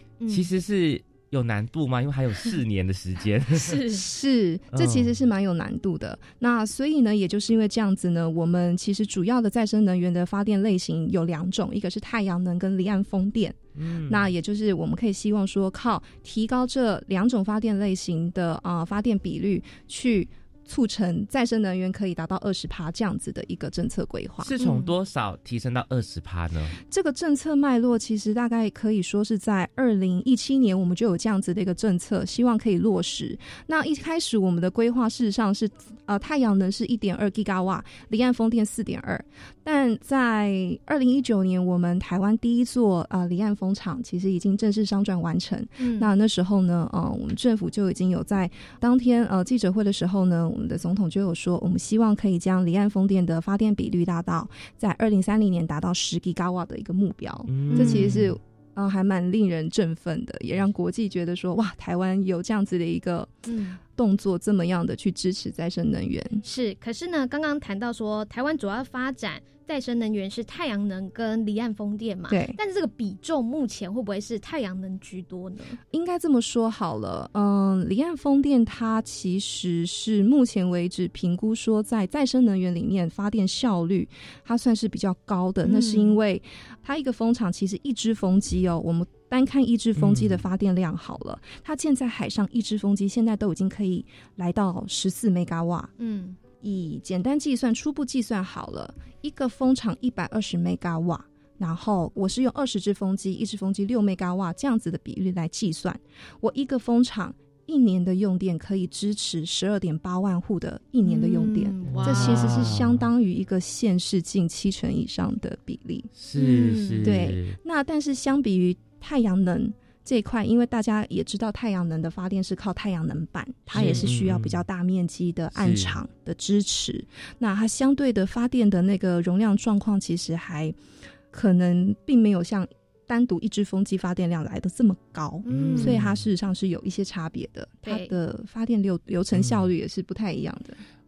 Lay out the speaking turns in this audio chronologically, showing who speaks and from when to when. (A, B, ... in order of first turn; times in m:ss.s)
0:00.2-0:00.4 A
0:00.3-0:03.8 B
0:03.6-0:04.0 A
0:03.9-0:24.5 C
0:04.7-0:05.2 B
0:13.8-0:14.3 B
0:24.4-0:26.8 B
0:24.6-0:24.9 A
0:26.9-1:03.3 C
0:45.8-0:46.1 A
0:57.5-0:58.3 B
0:57.7-0:58.3 A
1:03.4-1:03.8 A
1:04.0-1:06.4 C
1:06.4-1:15.8 A
1:12.3-1:12.6 C
1:15.9-1:35.9 C
1:25.6-1:26.2 A
1:30.0-1:30.4 B
1:36.0-1:36.4 A
1:36.6-1:56.1 C
1:51.0-1:52.7 A
1:51.9-1:53.1 B
1:56.2-1:57.6 B
1:56.4-1:57.0 A
1:57.0-2:10.8 C
2:03.7-2:04.6 B
2:05.5-2:06.0 B
2:11.3-2:20.8 C
2:15.4-2:16.0 A
2:15.5-2:16.2 B
2:17.8-2:18.1 A
2:19.3-2:19.7 B